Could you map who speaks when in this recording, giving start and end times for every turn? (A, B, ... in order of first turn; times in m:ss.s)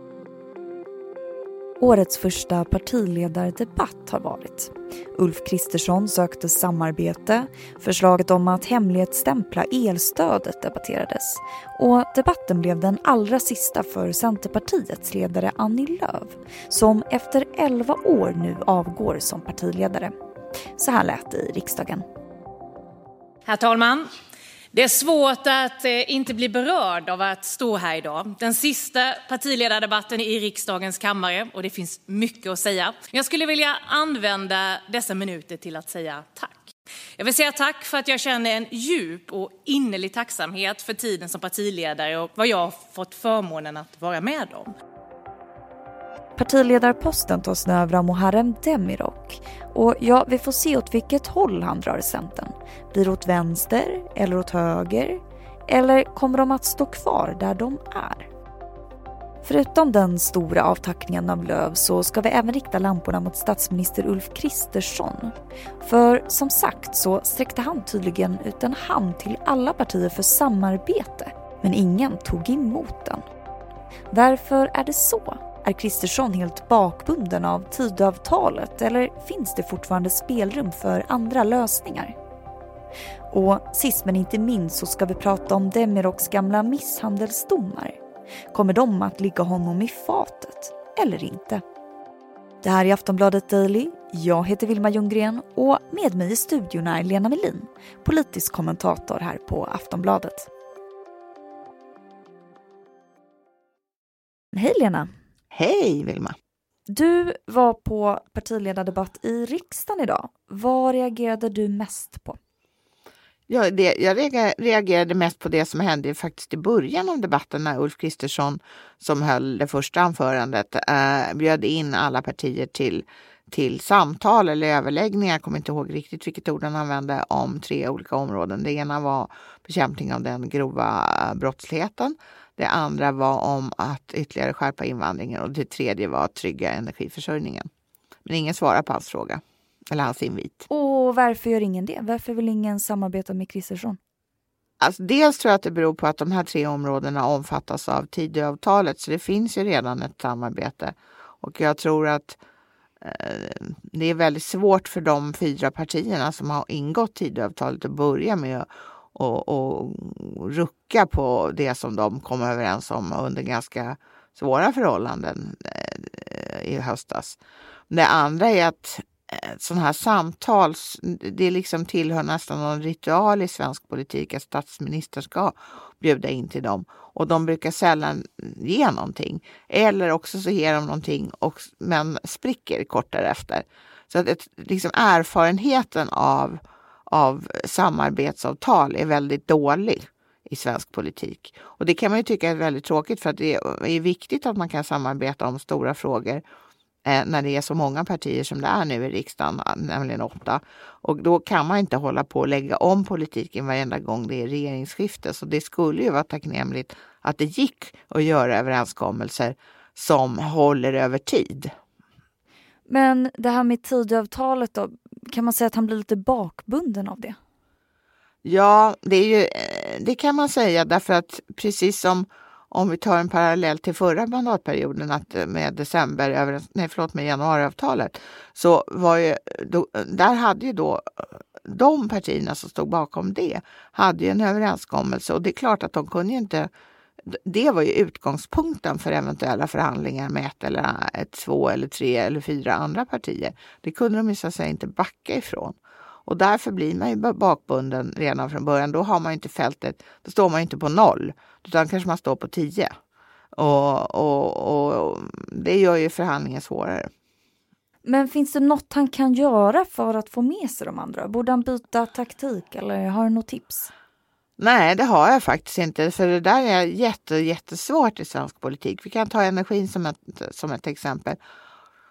0:01.8-0:20.1 A
0:20.8-0:22.0 A
0:23.5-0:24.1 B
0:24.7-0:44.7 B
0:46.4-0:58.3 A
0:59.4-1:13.2 A
1:14.1-1:22.1 A
1:23.3-1:28.0 A
1:28.5-1:31.6 A
1:32.6-1:40.5 A
1:44.5-1:45.1 A
1:45.5-1:46.3 C
1:46.9-1:52.4 A
1:53.5-2:17.7 C
2:18.3-2:20.6 C
2:20.7-2:24.0 A
2:24.8-2:32.4 C
2:33.0-2:47.4 C
2:47.9-3:16.4 C
3:17.1-3:31.7 C
3:32.9-3:37.4 A
3:38.4-3:56.7 C
3:57.3-4:12.9 C
4:13.6-4:17.1 C
4:18.0-4:23.9 A
4:24.6-4:31.4 C